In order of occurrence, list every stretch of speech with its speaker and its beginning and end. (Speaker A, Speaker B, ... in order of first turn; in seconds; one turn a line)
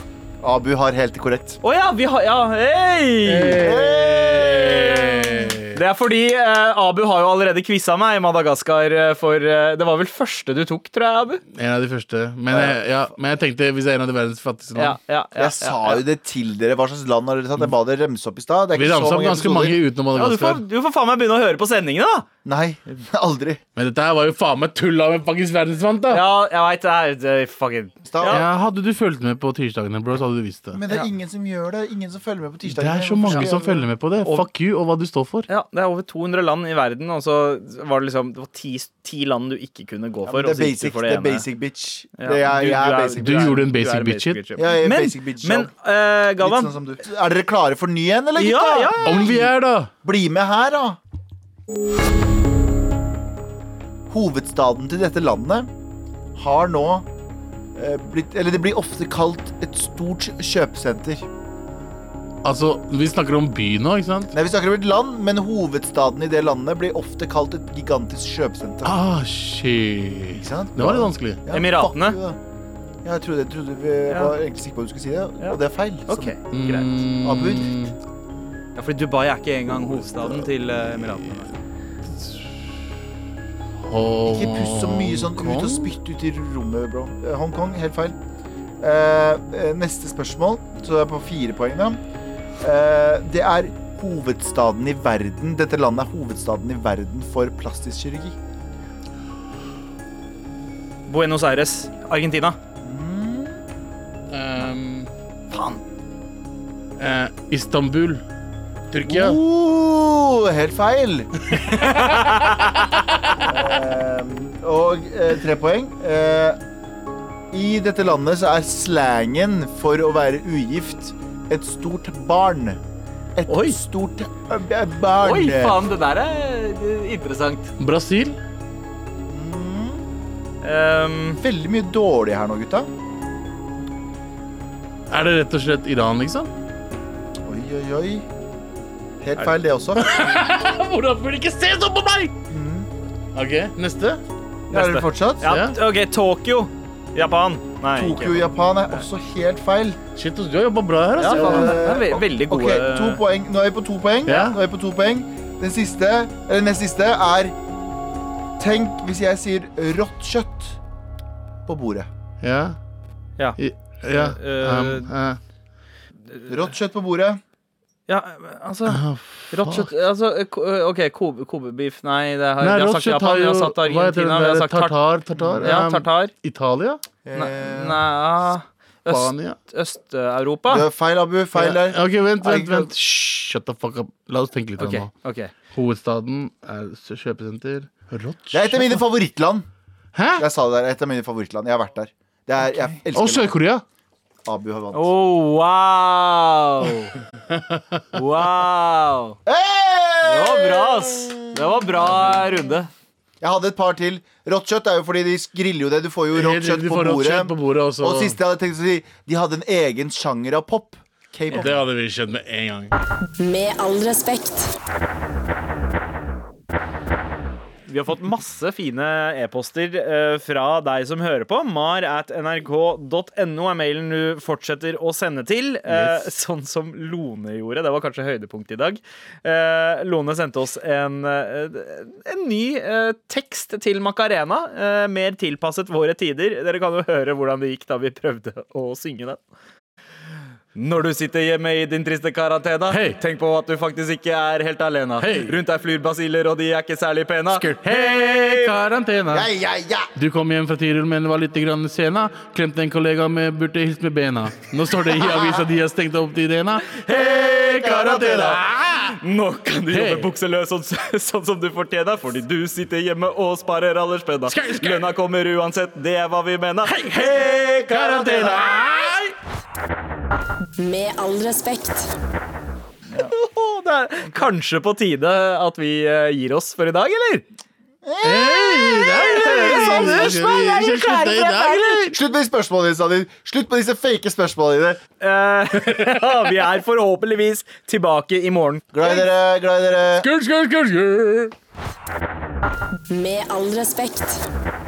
Speaker A: 0.4-1.6
Speaker B: 1.6-11.4
Speaker C: 3.2-5.8
Speaker A: 3.5-4.8
Speaker C: 11.5-15.0
Speaker A: 12.5-12.8
Speaker B: 14.8-16.0
Speaker A: 15.3-19.8
Speaker C: 18.7-20.6
Speaker B: 20.1-22.2
Speaker A: 22.4-23.6
Speaker C: 23.8-26.2
Speaker B: 26.1-28.5
Speaker A: 28.1-28.4
Speaker C: 28.2-30.8
Speaker A: 30.7-33.9
Speaker C: 32.7-35.5
Speaker B: 33.3-33.5
Speaker B: 35.5-41.4
Speaker A: 40.2-43.6
Speaker B: 42.2-46.7
Speaker C: 43.2-44.4
Speaker A: 44.5-45.7
Speaker A: 46.4-51.0
Speaker B: 48.4-49.3
Speaker C: 49.0-49.9
Speaker A: 54.1-55.7
Speaker A: 56.3-57.1
Speaker A: 57.7-61.3
Speaker C: 62.4-64.3
Speaker A: 64.3-69.0
Speaker C: 68.8-71.4
Speaker A: 70.3-72.4
Speaker B: 71.5-72.2
Speaker A: 73.0-76.3
Speaker B: 74.1-74.3
Speaker B: 76.1-76.9
Speaker C: 76.5-77.9
Speaker A: 77.2-77.9
Speaker B: 78.8-81.5
Speaker C: 82.1-82.5
Speaker C: 83.8-85.9
Speaker A: 84.2-88.2
Speaker A: 88.8-92.0
Speaker A: 92.6-98.4
Speaker B: 101.1-102.6
Speaker A: 102.8-103.6
Speaker C: 104.3-105.1
Speaker B: 105.5-105.8
Speaker C: 107.0-108.2
Speaker C: 108.9-109.4
Speaker A: 109.0-111.3
Speaker B: 111.7-112.8
Speaker A: 113.5-116.6
Speaker A: 117.5-122.8
Speaker A: 123.3-125.8
Speaker B: 125.2-127.7
Speaker C: 127.8-128.4
Speaker A: 129.3-130.1
Speaker B: 130.6-131.4
Speaker A: 131.4-132.9
Speaker C: 135.1-136.5
Speaker A: 137.4-138.2
Speaker A: 139.2-140.2
Speaker C: 140.0-142.3
Speaker A: 142.5-142.9
Speaker C: 143.3-144.2
Speaker A: 144.7-145.5
Speaker B: 144.7-148.5
Speaker C: 145.4-145.8
Speaker A: 147.9-150.0
Speaker C: 150.1-151.9
Speaker B: 151.2-153.2
Speaker A: 151.2-157.5
Speaker C: 154.3-154.6
Speaker A: 158.6-160.8
Speaker A: 161.7-162.1
Speaker C: 162.4-162.8
Speaker C: 163.6-165.4
Speaker B: 164.1-165.1
Speaker A: 166.5-167.4
Speaker B: 168.1-175.0
Speaker C: 168.9-169.9
Speaker C: 172.6-177.0
Speaker A: 175.4-175.7
Speaker B: 175.6-176.3
Speaker A: 177.2-178.0
Speaker B: 177.3-180.9
Speaker C: 179.1-179.6
Speaker A: 180.7-182.9
Speaker C: 181.5-185.1
Speaker B: 184.8-185.5
Speaker C: 185.7-189.0
Speaker A: 188.5-189.7
Speaker C: 190.1-190.4
Speaker A: 190.3-193.6
Speaker C: 193.1-193.8
Speaker A: 194.4-195.1
Speaker B: 194.9-197.1
Speaker C: 197.5-198.0
Speaker B: 198.1-199.3
Speaker A: 199.4-202.4
Speaker B: 200.2-202.9
Speaker A: 203.4-211.7
Speaker C: 206.3-208.4
Speaker C: 211.5-212.9
Speaker D: 213.4-214.8
Speaker B: 217.9-239.4
Speaker C: 225.9-226.2
Speaker B: 240.7-248.8
Speaker C: 242.9-243.2
Speaker C: 245.2-245.6
Speaker C: 247.5-249.5
Speaker A: 249.3-250.1
Speaker C: 250.2-259.2
Speaker A: 255.2-255.7
Speaker A: 257.1-258.6
Speaker B: 257.2-258.6
Speaker B: 259.2-268.7
Speaker C: 259.9-260.3
Speaker C: 264.5-265.1
Speaker C: 266.9-269.3
Speaker D: 270.8-272.1
Speaker B: 273.3-277.4
Speaker A: 278.0-280.4
Speaker C: 278.2-282.2
Speaker B: 278.9-282.1
Speaker A: 282.1-285.0
Speaker B: 285.2-289.3
Speaker A: 288.9-290.3
Speaker C: 290.2-291.5
Speaker D: 293.1-294.5